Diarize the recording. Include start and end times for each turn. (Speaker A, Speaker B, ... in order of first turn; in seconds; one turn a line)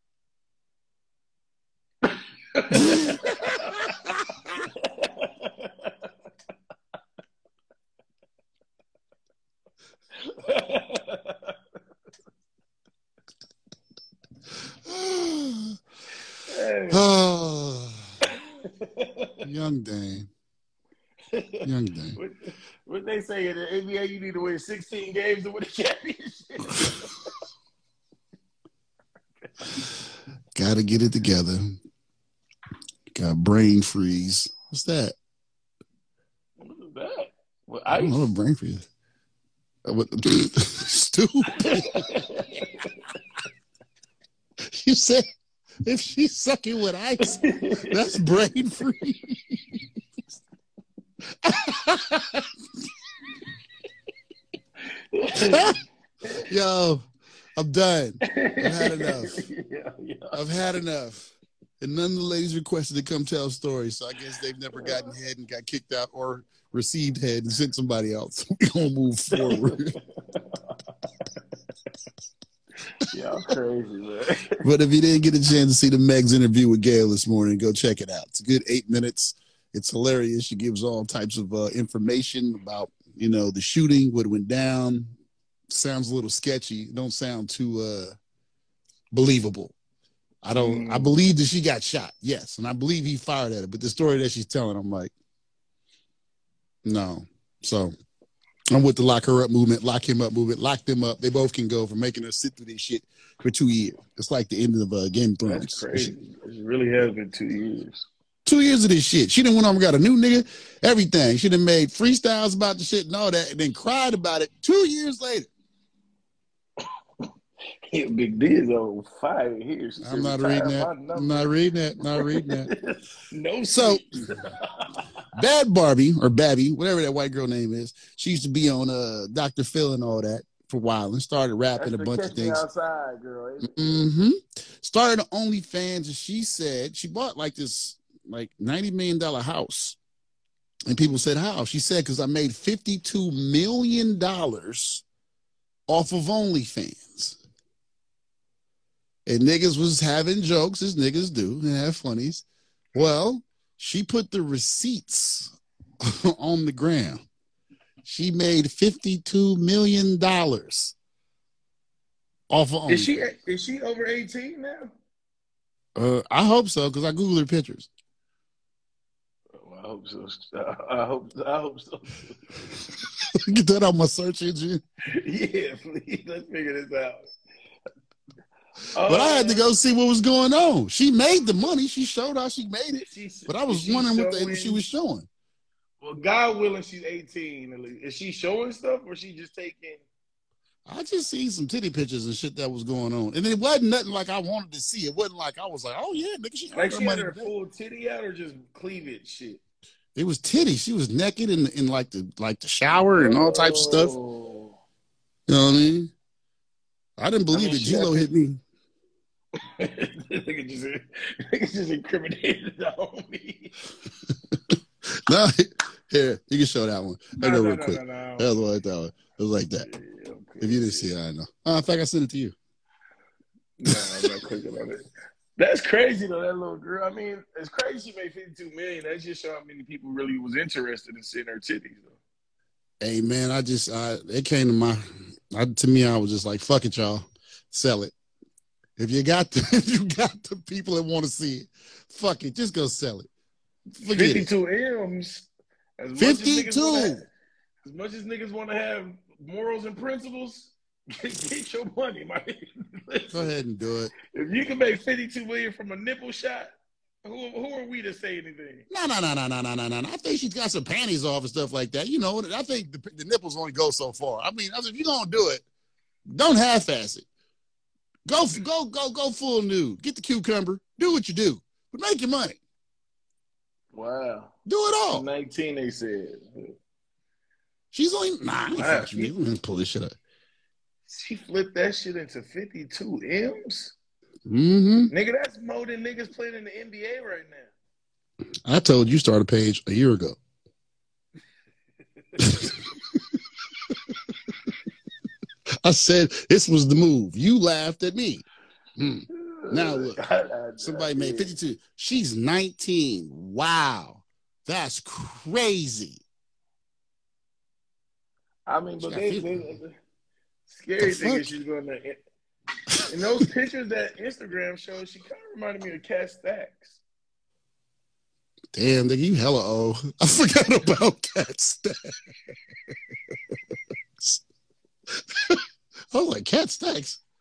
Speaker A: 2.5-3.9
Speaker B: 2.7-4.6
Speaker A: 4.6-6.1
Speaker A: 10.2-11.6
Speaker B: 14.8-15.8
Speaker A: 16.5-17.0
Speaker B: 16.9-18.1
Speaker A: 18.2-19.4
Speaker B: 19.4-20.3
Speaker A: 21.3-27.3
Speaker B: 21.6-22.2
Speaker B: 30.5-31.8
Speaker B: 33.1-35.1
Speaker A: 36.6-38.2
Speaker B: 37.9-38.9
Speaker B: 39.8-42.0
Speaker A: 41.6-42.9
Speaker B: 44.6-45.3
Speaker B: 45.8-49.8
Speaker A: 47.2-48.2
Speaker B: 51.4-52.5
Speaker A: 54.9-56.4
Speaker B: 55.3-55.8
Speaker B: 56.4-57.0
Speaker B: 57.5-59.4
Speaker A: 58.2-60.4
Speaker B: 60.3-70.0
Speaker A: 69.3-71.4
Speaker A: 73.1-74.6
Speaker B: 74.6-85.1
Speaker B: 85.7-88.2
Speaker B: 89.1-89.7
Speaker B: 90.4-95.1
Speaker A: 90.5-91.1
Speaker B: 96.8-97.9
Speaker B: 98.7-106.2
Speaker A: 105.5-108.0
Speaker B: 108.5-115.5
Speaker A: 117.8-121.5
Speaker B: 120.0-122.7
Speaker A: 122.1-125.1
Speaker B: 123.7-124.0
Speaker B: 125.3-132.6
Speaker A: 131.8-133.9
Speaker B: 133.6-140.0
Speaker B: 140.9-145.0
Speaker B: 145.9-147.4
Speaker B: 149.2-157.2
Speaker B: 158.0-160.9
Speaker B: 162.5-163.2
Speaker A: 162.9-164.9
Speaker B: 165.9-167.9
Speaker A: 169.5-172.3
Speaker B: 173.4-174.8
Speaker A: 175.1-177.3
Speaker A: 178.9-179.6
Speaker B: 179.0-185.3
Speaker A: 183.1-184.8
Speaker A: 186.0-190.0
Speaker B: 190.8-197.5
Speaker A: 196.7-199.6
Speaker B: 200.1-204.1
Speaker A: 203.2-204.8
Speaker B: 205.5-206.1
Speaker B: 207.2-208.6
Speaker A: 207.5-208.3
Speaker A: 209.8-213.7
Speaker B: 215.2-219.9
Speaker A: 217.4-218.5
Speaker A: 219.8-221.1
Speaker B: 220.6-222.5
Speaker A: 223.8-232.2
Speaker B: 223.9-224.3
Speaker B: 233.0-238.1
Speaker B: 239.0-243.3
Speaker B: 244.0-244.5
Speaker A: 244.1-247.3
Speaker B: 246.2-247.2
Speaker A: 247.8-253.6
Speaker B: 253.3-254.1
Speaker A: 254.3-258.9
Speaker B: 258.9-265.6
Speaker B: 266.3-267.2
Speaker B: 268.2-272.6
Speaker A: 273.9-274.5
Speaker B: 274.6-275.2
Speaker A: 275.1-276.7
Speaker B: 277.9-280.1
Speaker A: 278.7-279.3
Speaker A: 281.1-283.9
Speaker B: 284.4-285.1
Speaker A: 285.1-287.7
Speaker B: 288.6-290.4
Speaker B: 295.8-298.4
Speaker B: 299.0-300.2
Speaker A: 299.4-301.6
Speaker B: 300.8-306.2
Speaker A: 308.7-310.0
Speaker B: 309.0-309.6
Speaker A: 310.7-312.2
Speaker B: 311.0-311.5
Speaker A: 313.1-317.0
Speaker B: 318.7-322.1
Speaker B: 325.1-325.6
Speaker B: 326.1-327.2